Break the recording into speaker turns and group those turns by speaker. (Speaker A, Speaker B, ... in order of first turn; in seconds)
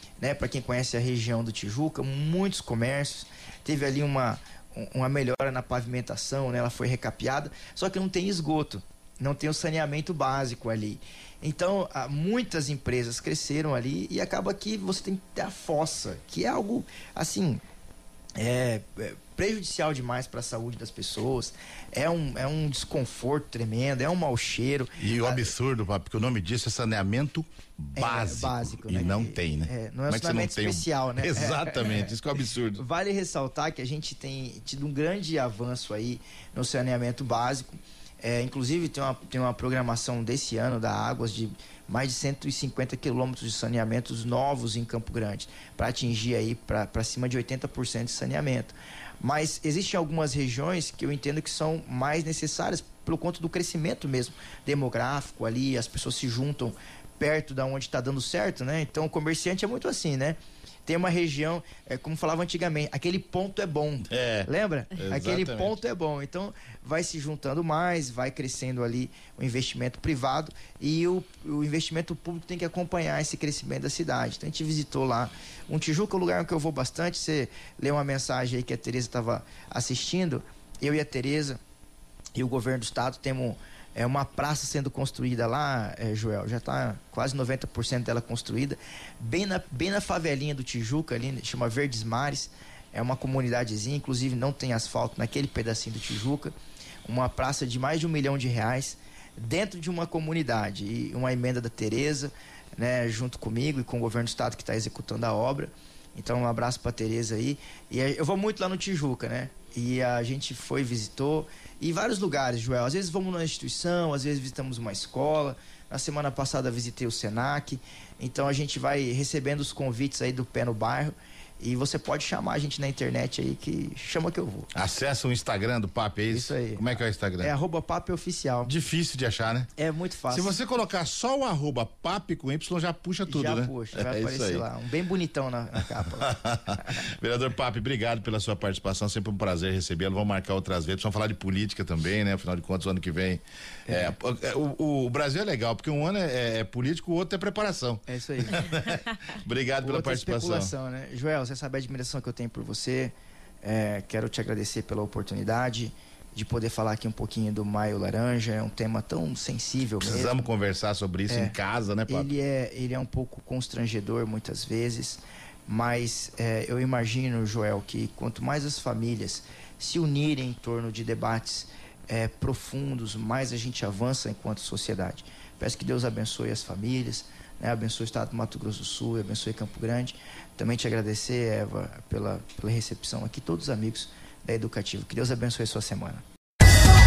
Speaker A: 0.2-17.6, 18.4-25.5, 28.0-32.1, 32.8-81.6, 82.3-96.5, 97.0-124.7, 126.3-128.7, 129.8-130.6, 133.3-137.0, 143.9-144.1, 148.1-148.7, 149.8-160.4, 161.3-161.6, 162.1-186.2
Speaker B: 25.0-32.8, 64.1-65.8, 124.8-127.5, 128.6-129.7, 130.3-134.7, 136.1-150.7, 160.0-162.3